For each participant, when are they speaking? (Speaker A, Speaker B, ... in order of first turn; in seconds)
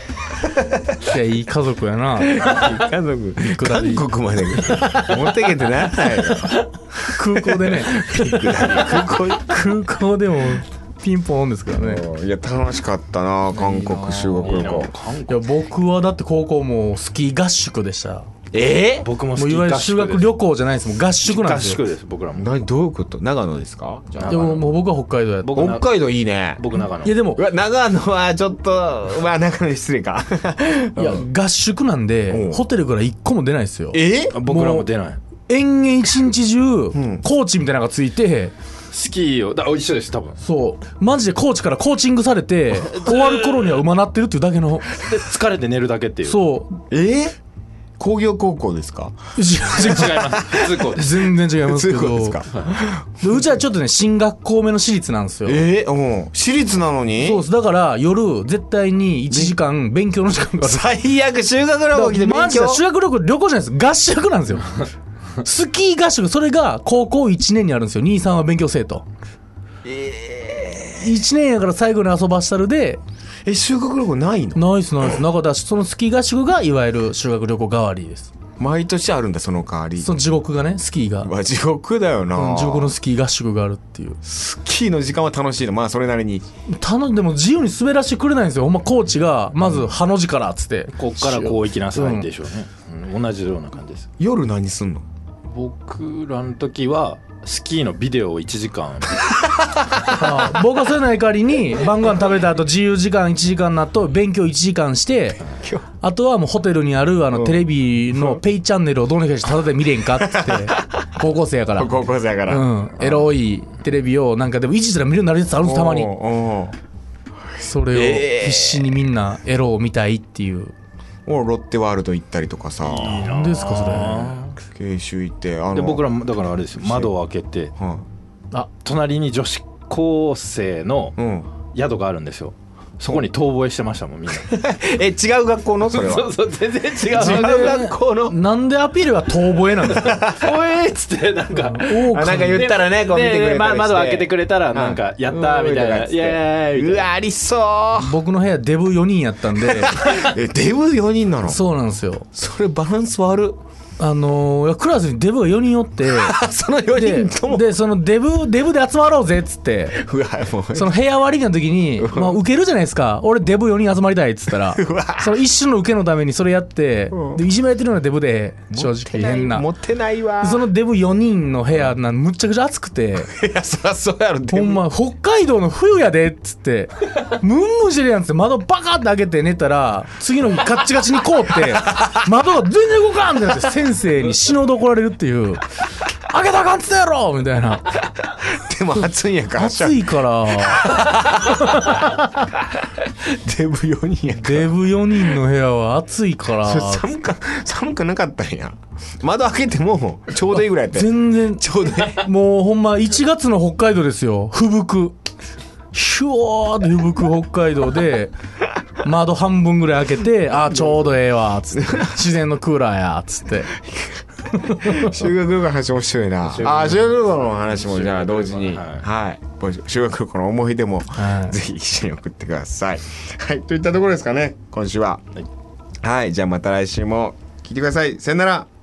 Speaker A: 0.2-1.1, 2.2-9.7, 11.8-14.9, 18.5-19.1, 22.3-24.6, 25.5-26.6, 27.4-31.2, 32.3-32.6, 33.9-34.4, 36.9-37.2, 46.9-47.3, 48.0-49.1, 50.0-50.8, 51.6-53.4, 55.5-57.4, 60.6-62.8, 69.8-71.1, 73.5-74.6, 78.6-80.2, 81.2-82.9, 84.2-86.5, 91.2-91.6, 94.2-95.0, 99.5-100.2, 107.3-108.4, 110.2-111.1, 111.8-113.3, 115.6-116.8, 117.9-119.0, 121.2-123.3, 124.6-126.1, 126.8-127.1, 127.8-128.0, 131.2-131.5, 134.3-136.3, 137.1-138.4, 139.9-140.5, 141.8-148.2, 149.8-151.6, 152.3-153.6, 156.1-157.7, 159.9-160.9, 162.0-162.4, 164.7-165.4, 167.1-167.4, 168.7-170.6, 173.3-174.8, 181.8-182.2, 188.5-190.0, 190.6-192.1, 193.1-194.7, 196.6-202.3, 211.8-212.1, 213.9-225.2, 226.0-228.7
Speaker B: 1.0-2.7, 3.4-4.1, 7.0-12.0, 13.5-18.3, 19.4-21.8, 24.3-25.7, 26.7-27.4, 31.0-34.9, 35.5-38.5, 40.4-45.0, 46.2-46.8, 49.4-50.3, 50.9-52.5, 53.2-55.6, 57.2-61.0, 61.9-64.9, 65.4-69.0, 71.0-73.0, 74.5-78.3, 80.0-81.3, 82.3-84.2, 86.7-90.9, 91.9-92.3, 100.0-105.4, 106.0-112.0, 112.5-116.1, 117.6-120.7, 123.2-124.3, 137.1-140.3, 141.5-142.7, 148.0-150.1, 151.4-152.2, 154.0-156.3, 156.9-160.0, 160.7-169.7, 170.4-173.3, 174.5-185.6, 186.3-187.9, 189.6-192.1, 194.3-197.1, 200.9-205.2, 205.9-208.3, 209.0-213.8, 214.7-215.3, 221.2-221.6
Speaker C: 14.4-15.5, 19.0-20.3, 21.2-22.5, 24.1-24.7, 25.4-25.9, 26.6-27.2, 34.3-35.2, 38.9-40.4, 42.8-43.8, 45.0-46.4, 49.7-51.3, 52.5-52.8, 90.9-94.1, 95.5-99.3, 122.8-124.6, 125.7-127.7, 128.8-131.2, 131.7-134.5, 135.8-137.8, 140.2-141.9, 142.5-147.1, 216.4-219.1